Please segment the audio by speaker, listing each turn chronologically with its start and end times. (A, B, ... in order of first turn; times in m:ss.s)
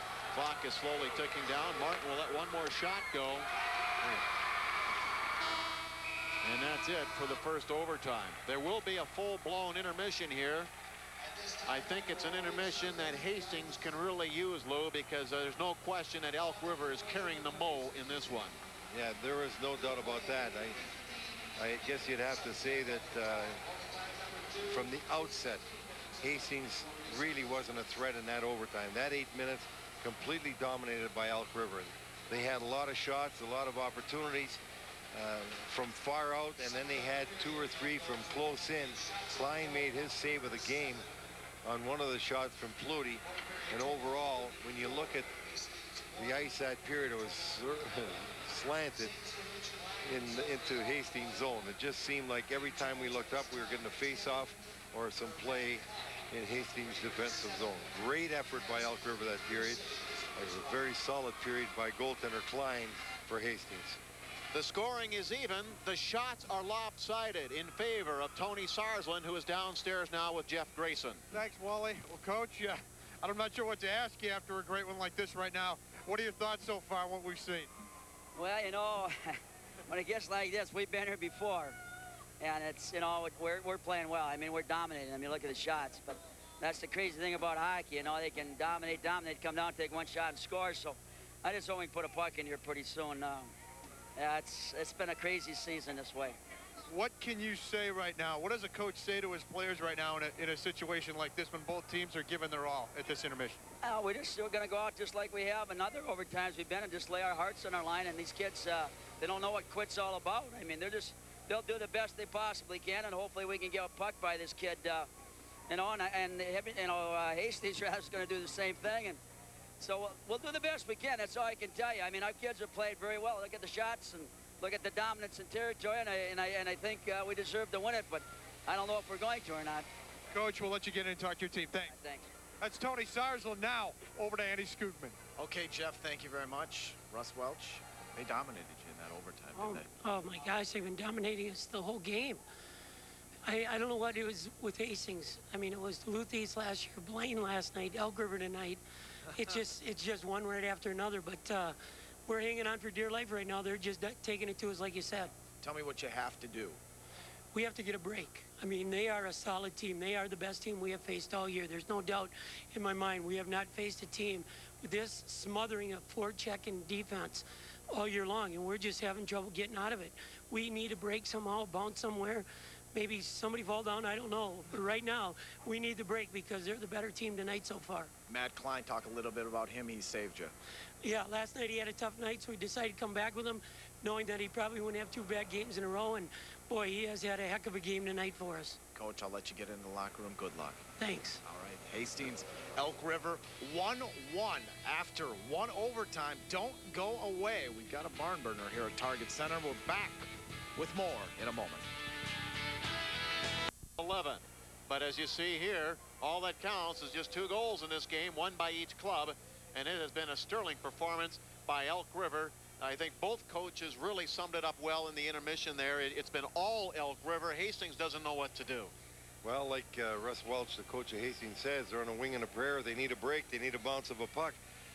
0:00.3-0:03.5 A
0:06.4-0:10.7 A
0:11.7-0:18.6 A
0:18.9-0:20.8 B
0:21.6-0:23.6 B
0:24.7-0:25.7 B
0:26.2-0:34.6 B
0:35.1-0:41.1 B
0:41.6-0:45.3 B
0:46.2-0:49.2 B
0:50.0-1:04.0 B
1:04.5-1:11.2 A
1:11.3-1:17.7 C
1:18.4-1:19.4 D
1:19.9-1:21.8 D
1:22.4-1:33.5 D
1:34.2-1:36.4 D
1:36.9-1:43.6 C
1:43.8-1:55.1 D
1:55.7-1:59.2 D
1:59.8-2:09.9 D
2:10.3-2:11.9 C
2:11.9-2:12.3 D
2:12.6-2:15.2 C
2:15.4-2:19.9 E
2:19.6-2:22.4 F
2:23.4-2:28.8 F
2:29.3-2:35.3 F
2:35.6-2:36.8 E
2:37.5-2:58.1 F
2:58.3-3:00.5 E
3:01.0-3:08.8 F
3:08.9-3:10.9 E
3:11.0-3:11.4 F
3:11.4-3:21.9 E
3:24.0-3:38.9 A
3:39.4-3:44.6 B